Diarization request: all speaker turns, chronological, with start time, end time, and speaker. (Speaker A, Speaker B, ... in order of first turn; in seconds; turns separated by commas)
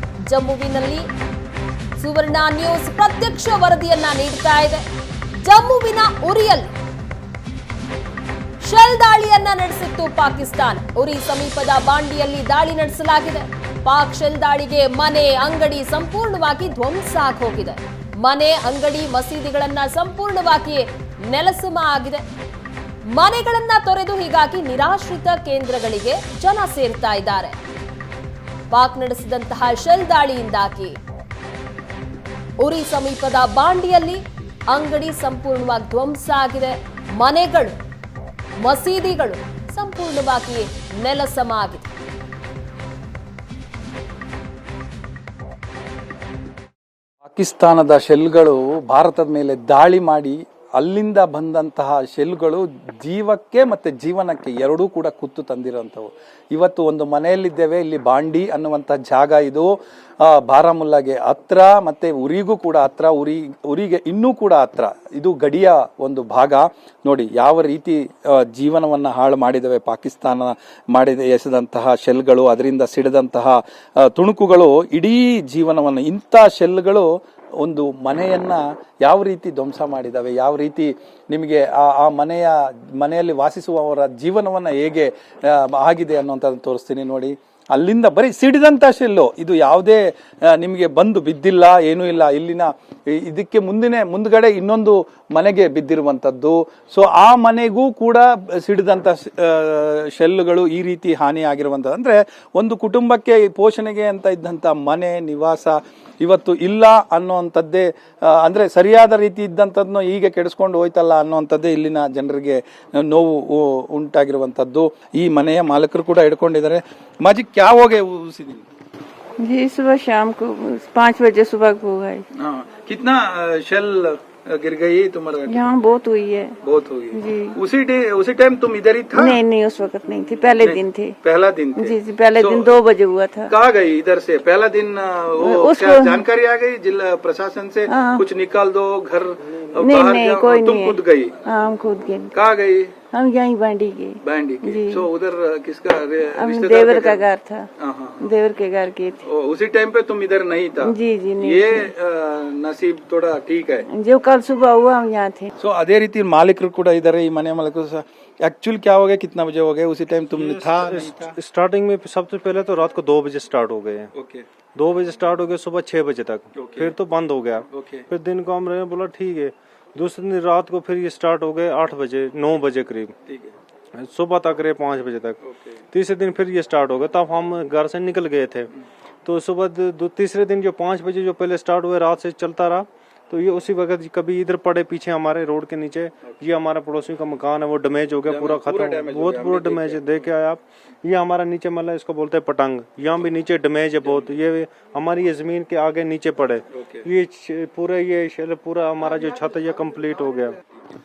Speaker A: 0.3-1.1, Speaker A: 2.0-4.8, Speaker A: 5.4-6.7, Speaker A: 8.6-22.2, Speaker A: 23.1-27.6, Speaker A: 28.7-30.9, Speaker A: 32.6-37.7, Speaker A: 38.6-41.9, Speaker B: 47.2-59.7, Speaker B: 60.2-77.1, Speaker B: 77.6-118.6, Speaker C: 119.4-122.2, Speaker B: 122.3-125.6, Speaker C: 125.5-126.6, Speaker B: 126.6-129.4, Speaker C: 127.1-127.6, Speaker C: 129.2-131.2, Speaker B: 130.6-132.7, Speaker C: 131.8-133.5, Speaker B: 133.5-141.4, Speaker C: 135.4-136.2, Speaker C: 137.9-138.2, Speaker C: 139.8-142.3, Speaker B: 142.3-142.9, Speaker C: 143.1-145.1, Speaker B: 144.2-147.2, Speaker C: 146.3-147.7, Speaker B: 147.8-148.3, Speaker C: 148.2-149.2, Speaker B: 149.2-153.9, Speaker C: 150.8-151.9, Speaker C: 153.9-155.5, Speaker B: 155.6-161.3, Speaker D: 160.3-164.1, Speaker B: 164.1-164.4, Speaker D: 164.8-173.1, Speaker B: 166.6-166.9, Speaker B: 167.7-168.1, Speaker B: 173.3-173.5, Speaker D: 174.0-175.4, Speaker B: 175.5-175.8, Speaker D: 175.9-178.7, Speaker D: 179.2-200.6, Speaker B: 188.2-190.3, Speaker B: 196.8-197.1